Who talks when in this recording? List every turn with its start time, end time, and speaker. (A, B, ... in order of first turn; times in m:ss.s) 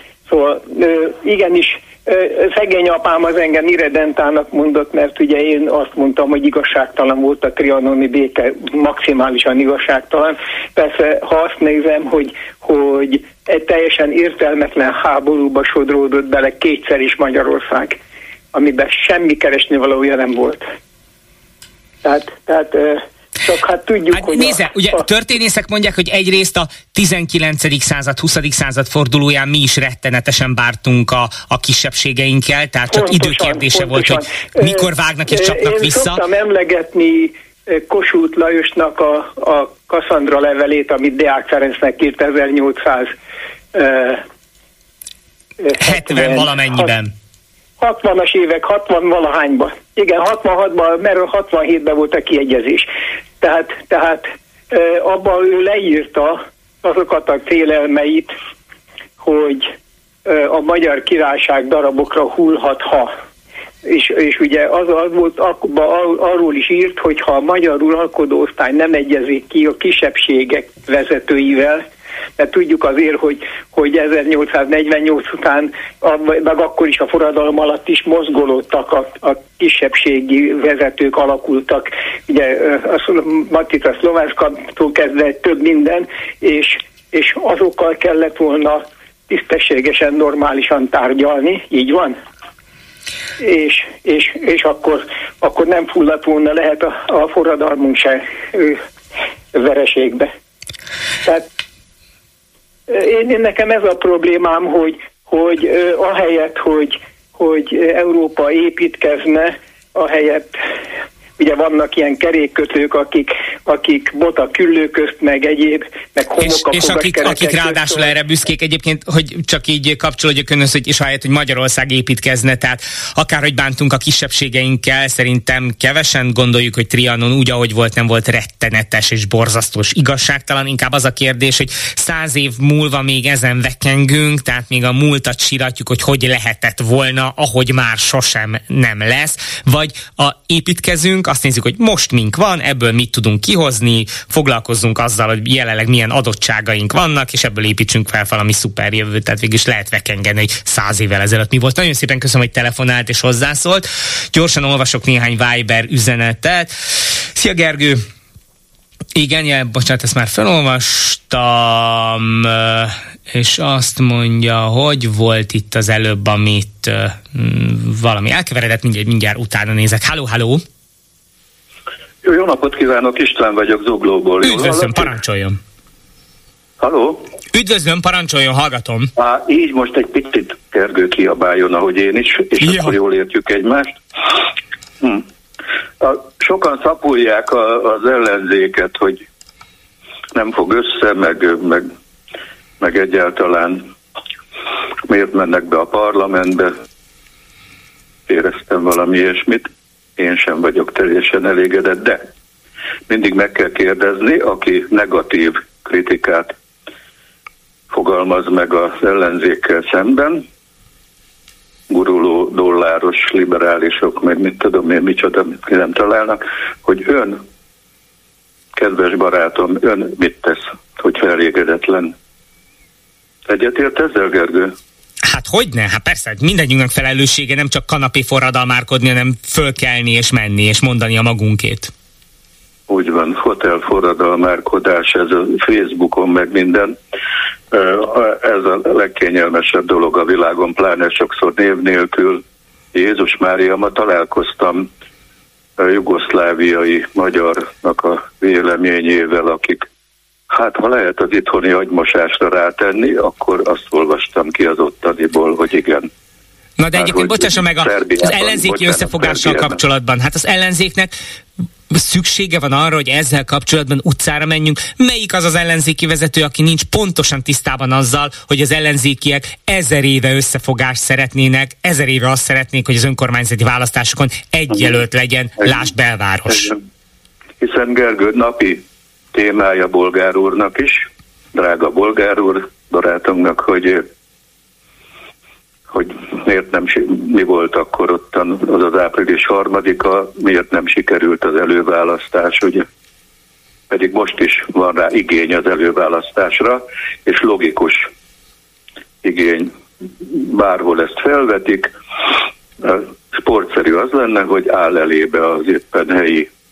0:00.3-0:18.0 A
0:18.5-0:20.6 A
0:22.0-0:25.0 A
0:24.1-0:36.2 B
0:32.9-0:43.1 A
0:43.7-0:44.2 A
0:45.6-0:46.9 A
0:45.8-0:47.1 B
0:47.8-0:52.9 A
0:53.4-0:58.3 A
0:59.2-0:59.7 A
1:00.2-1:03.1 A
1:03.8-1:11.8 A
1:12.4-1:32.2 A
1:33.4-1:38.8 A
1:39.5-1:40.3 A
1:42.9-1:50.6 A
1:51.4-1:58.1 A
1:56.4-2:36.7 B
2:37.3-2:38.0 B
2:39.1-2:50.6 B
2:52.2-2:55.1 C
2:54.4-2:55.6 B
2:56.8-2:57.2 C
2:57.5-2:59.1 B
2:59.2-3:04.4 C
3:02.6-3:03.0 B
3:06.0-3:09.2 C
3:10.3-3:11.9 C
3:12.8-3:13.9 C
3:15.1-3:16.7 C
3:18.3-3:22.3 C
3:23.1-3:26.5 C
3:27.9-3:30.4 C
3:31.9-3:37.4 C
3:38.7-3:42.1 C
3:43.5-3:44.7 C
3:45.2-3:51.9 B
3:52.9-3:57.0 C
3:57.7-4:04.9 C
4:05.8-4:09.8 C
4:10.5-4:16.1 C
4:16.8-4:21.1 B
4:16.9-4:19.8 C
4:21.9-4:36.7 B
4:34.7-4:35.0 C
4:35.6-4:35.9 C
4:36.5-4:36.8 C
4:37.6-4:44.0 C
4:45.9-4:52.9 C
4:53.9-4:58.1 C
4:59.2-5:02.0 C
5:02.8-5:06.5 C